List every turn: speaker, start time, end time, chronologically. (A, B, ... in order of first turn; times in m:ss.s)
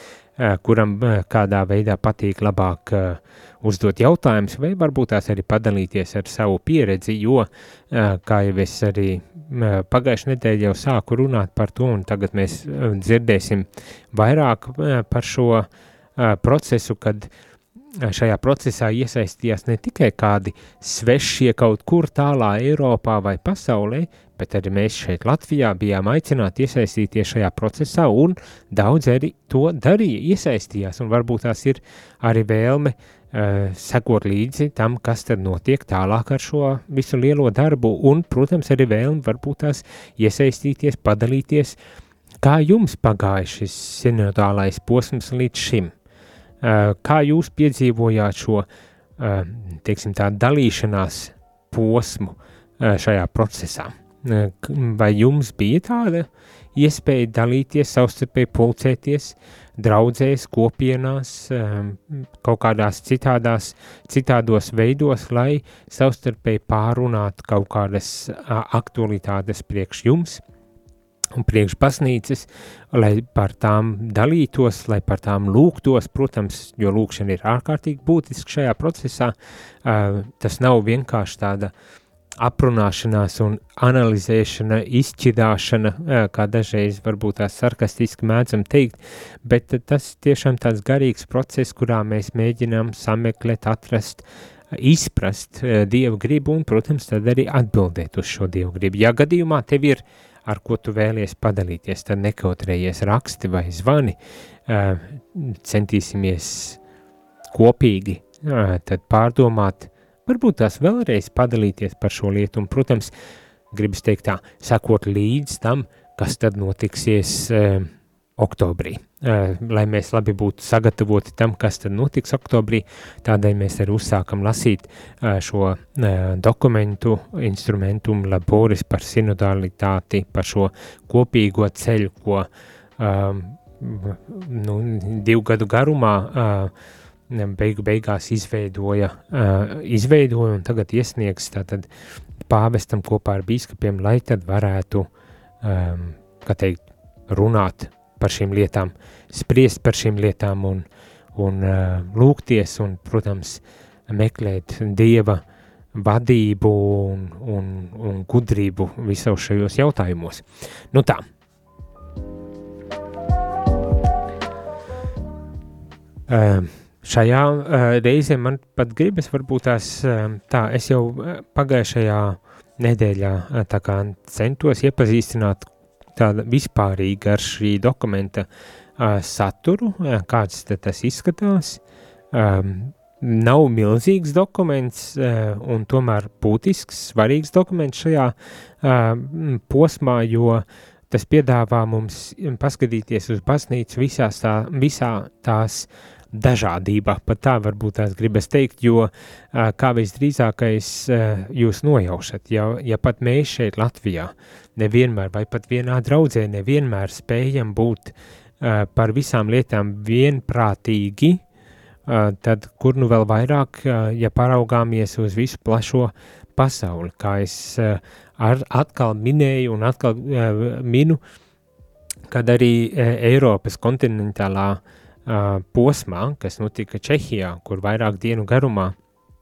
0:00.4-0:17.3 A
0:18.0-0:41.8 A
0:42.4-0:45.9 A
0:46.6-0:48.7 A
0:49.2-1:10.4 A
1:11.3-1:21.7 A
1:22.4-1:46.8 A
1:47.5-1:53.1 A
1:53.7-2:12.5 A
2:13.0-2:16.7 A
2:17.3-2:21.9 A
2:22.5-2:25.1 A
2:25.6-2:35.4 A
2:35.9-2:41.2 A
2:46.3-3:01.8 A
3:02.3-3:31.4 A
3:32.0-3:41.2 A
3:42.3-3:48.9 A